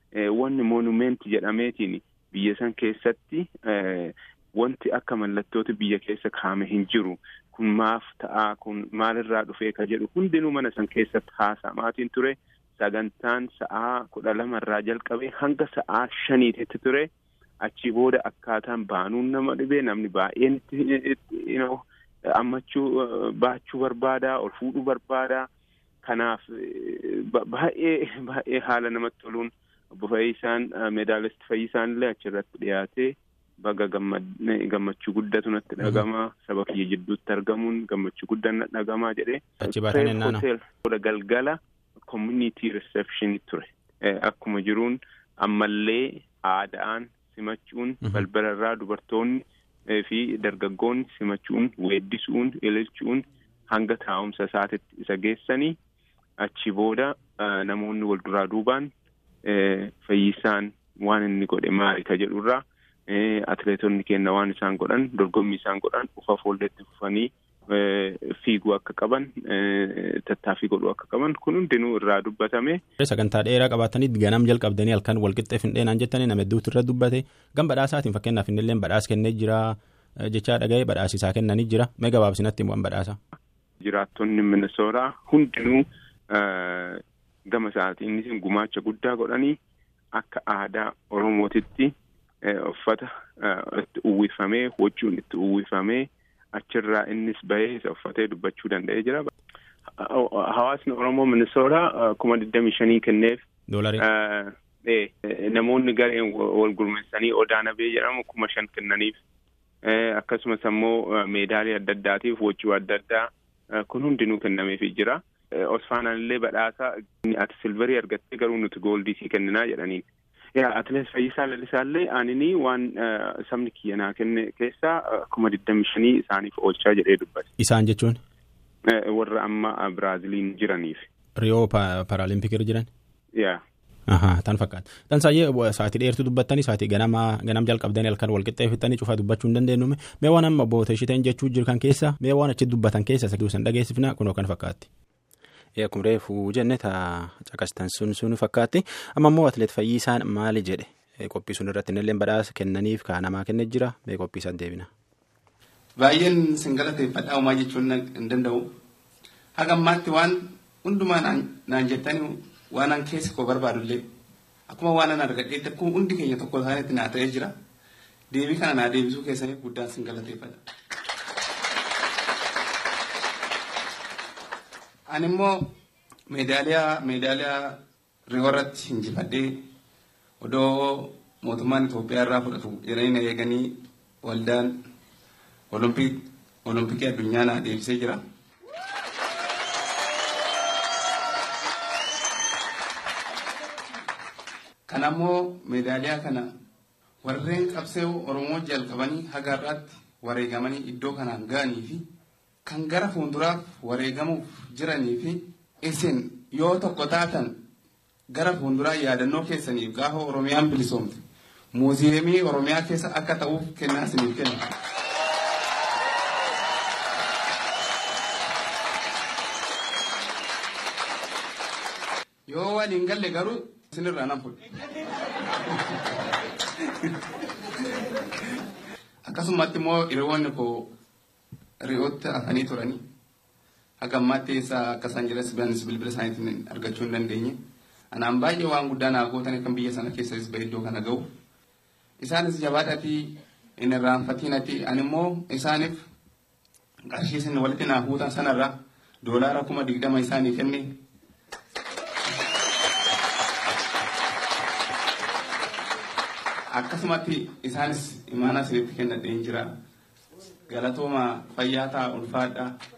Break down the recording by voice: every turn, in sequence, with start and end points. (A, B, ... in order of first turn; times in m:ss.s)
0:00.3-0:17.1 A
0:17.6-0:21.8 A
0:22.4-0:25.5 A
0:26.0-0:55.8 A
0:39.6-0:40.4 B
0:56.4-0:58.9 A
0:59.4-1:12.8 A
1:13.0-1:23.2 B
1:23.8-1:29.6 A
1:30.2-1:31.9 A
1:32.4-1:39.3 A
1:40.0-1:43.4 A
1:43.7-1:44.0 B
1:44.0-1:49.2 A
1:49.8-1:53.3 A
1:53.9-2:00.0 A
2:00.6-2:07.5 A
2:07.6-2:08.2 B
2:08.9-2:11.1 A
2:11.4-2:12.9 B
2:13.4-2:13.6 A
2:14.1-2:24.9 B
2:25.8-2:34.9 B
2:36.0-2:38.7 C
2:39.6-2:44.0 C
2:44.7-2:47.5 C
2:48.3-2:50.6 C
2:55.1-2:55.6 C
2:56.3-2:59.5 C
3:00.4-3:04.8 C
3:05.7-3:08.2 C
3:14.9-3:16.5 C
3:17.2-3:22.0 C
3:22.7-3:27.6 C
3:28.3-3:31.2 C
3:31.7-3:34.6 C
3:42.5-3:44.8 C
3:45.7-3:46.0 C
3:46.8-3:47.2 C
3:49.2-3:50.9 C
3:51.8-3:53.0 C
3:54.0-3:57.6 C
3:58.1-4:01.3 C
4:02.2-4:06.0 C
4:07.1-4:11.0 C
4:16.7-4:19.7 C
4:20.7-4:22.7 C